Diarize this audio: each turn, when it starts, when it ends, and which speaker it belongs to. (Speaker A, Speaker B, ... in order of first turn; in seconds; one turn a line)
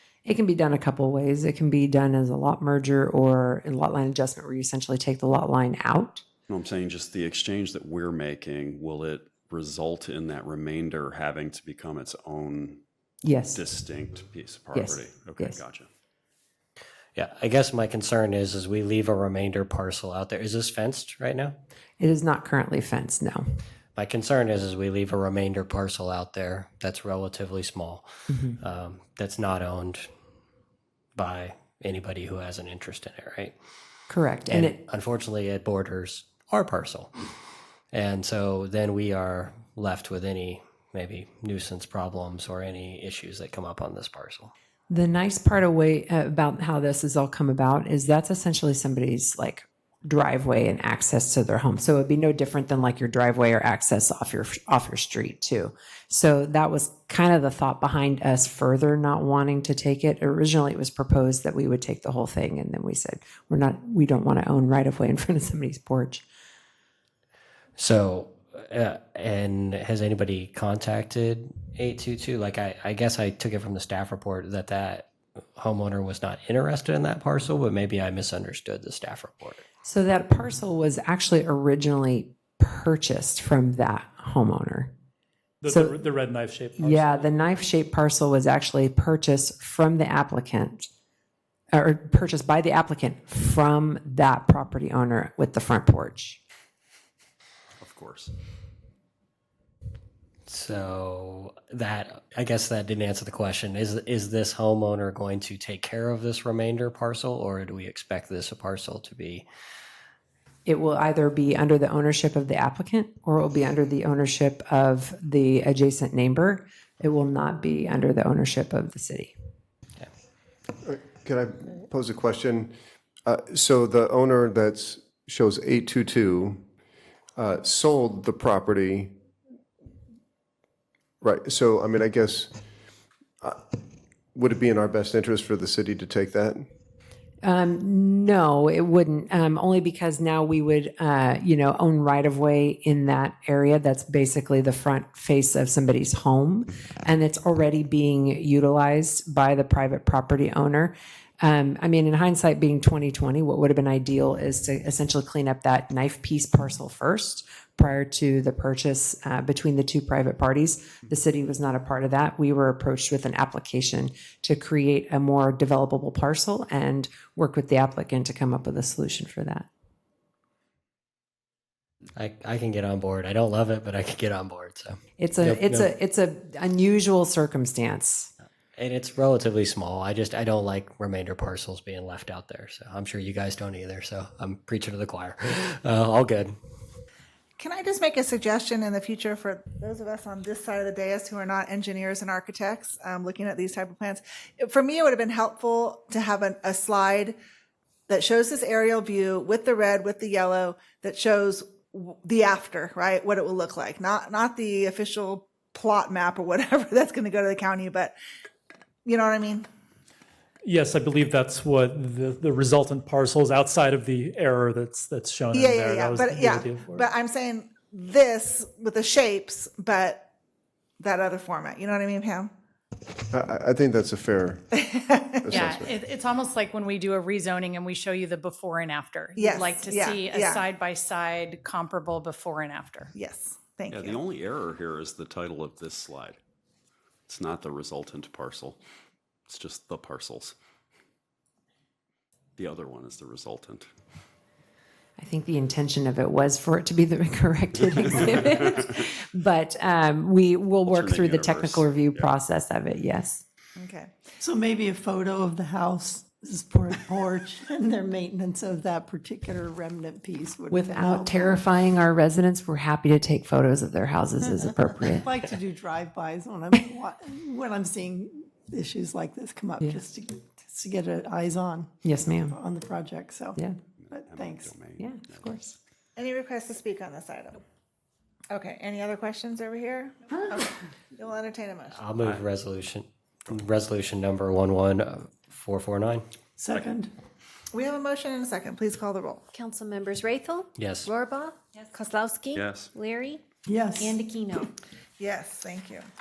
Speaker A: 0.2-6.2
Speaker B: 6.5-12.8
Speaker A: 13.2-13.7
Speaker B: 13.5-15.9
Speaker A: 14.7-15.6
Speaker C: 17.1-21.6
Speaker A: 22.0-23.6
Speaker C: 23.9-30.1
Speaker A: 28.3-28.6
Speaker C: 31.1-33.5
Speaker A: 34.1-34.8
Speaker C: 34.5-37.1
Speaker C: 37.9-44.5
Speaker A: 44.9-66.2
Speaker C: 67.8-79.6
Speaker A: 79.8-84.9
Speaker D: 85.6-87.3
Speaker A: 85.7-86.1
Speaker A: 86.8-90.9
Speaker A: 91.7-96.4
Speaker B: 97.8-98.3
Speaker C: 100.5-109.4
Speaker A: 110.6-119.4
Speaker E: 120.8-122.7
Speaker E: 123.2-126.6
Speaker E: 127.3-129.1
Speaker E: 131.2-132.5
Speaker E: 133.4-133.8
Speaker E: 134.3-136.6
Speaker A: 137.4-169.7
Speaker C: 172.2-175.9
Speaker A: 175.2-178.3
Speaker C: 178.8-186.5
Speaker F: 187.6-197.3
Speaker F: 198.1-208.1
Speaker F: 209.0-209.7
Speaker D: 210.6-217.1
Speaker F: 215.5-220.3
Speaker F: 221.0-222.5
Speaker E: 223.3-224.7
Speaker F: 224.8-225.7
Speaker E: 225.4-225.9
Speaker G: 225.5-233.1
Speaker F: 229.3-230.6
Speaker F: 233.1-234.2
Speaker B: 233.9-236.4
Speaker B: 237.3-238.8
Speaker B: 239.5-240.5
Speaker B: 242.6-243.9
Speaker A: 245.2-253.4
Speaker B: 250.8-252.3
Speaker F: 253.8-254.1
Speaker H: 254.4-261.6
Speaker A: 260.7-265.3
Speaker H: 265.2-274.7
Speaker A: 272.0-272.6
Speaker B: 274.0-275.7
Speaker A: 275.0-275.7
Speaker F: 276.1-277.6
Speaker F: 278.5-282.0
Speaker C: 281.9-286.2
Speaker H: 286.6-287.1
Speaker F: 287.7-289.4
Speaker I: 289.5-293.4
Speaker C: 290.8-291.1
Speaker B: 292.5-292.9
Speaker H: 293.6-294.2
Speaker I: 293.9-294.7
Speaker F: 295.2-296.1